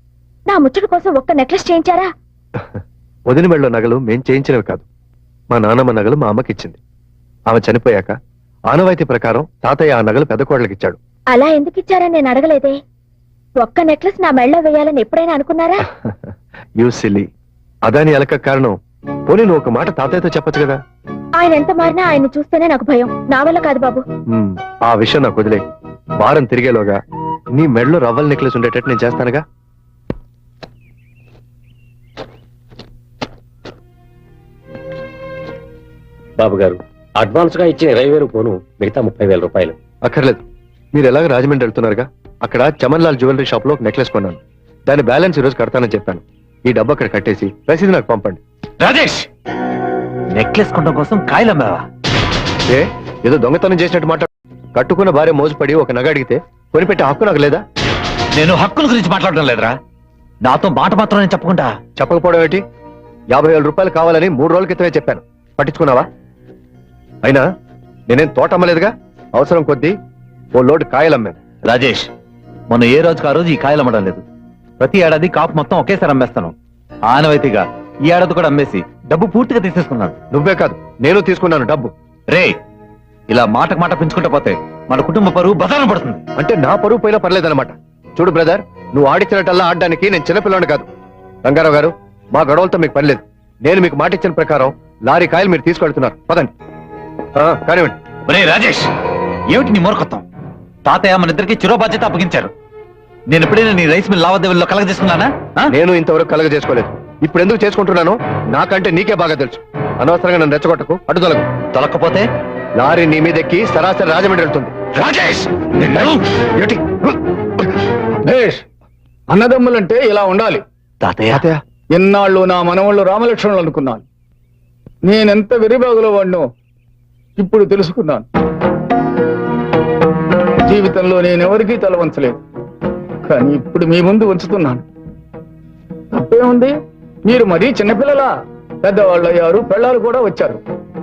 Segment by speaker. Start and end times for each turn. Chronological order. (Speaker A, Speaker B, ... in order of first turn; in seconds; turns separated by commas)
Speaker A: 0.5-2.1, Speaker B: 3.3-4.8, Speaker B: 5.5-6.8, Speaker B: 7.5-8.2, Speaker B: 8.7-11.0, Speaker A: 11.3-12.8, Speaker A: 13.6-15.8, Speaker B: 16.8-17.3, Speaker B: 17.9-18.8, Speaker B: 19.3-20.8, Speaker A: 21.4-24.0, Speaker B: 24.3-25.6, Speaker B: 26.2-27.0, Speaker B: 27.6-29.4, Speaker C: 36.4-39.7, Speaker B: 40.0-48.4, Speaker D: 48.8-49.3, Speaker D: 50.3-51.9, Speaker B: 52.7-57.6, Speaker D: 58.3-59.8, Speaker D: 60.4-61.8, Speaker B: 62.0-62.6, Speaker B: 63.3-66.1, Speaker B: 68.1-69.9, Speaker B: 70.5-71.4, Speaker D: 71.6-72.1, Speaker D: 72.7-74.2, Speaker D: 74.8-76.5, Speaker D: 77.1-80.2, Speaker B: 80.3-81.9, Speaker D: 82.3-82.5, Speaker D: 83.3-86.2, Speaker B: 86.4-90.8, Speaker B: 91.4-96.5, Speaker B: 97.4-98.0, Speaker D: 98.3-98.9, Speaker D: 99.5-100.2, Speaker D: 100.8-102.5, Speaker D: 103.3-105.7, Speaker B: 105.7-111.5, Speaker D: 111.7-112.2, Speaker B: 112.8-114.7, Speaker D: 115.0-116.2, Speaker B: 116.6-117.0, Speaker E: 118.2-118.6, Speaker E: 119.3-120.6, Speaker D: 121.0-121.4, Speaker B: 121.3-121.6, Speaker E: 121.9-124.0, Speaker E: 125.0-126.5, Speaker E: 127.4-128.3, Speaker E: 130.6-132.4, Speaker E: 133.3-134.8, Speaker E: 136.1-136.7, Speaker E: 137.2-138.3, Speaker E: 138.8-140.6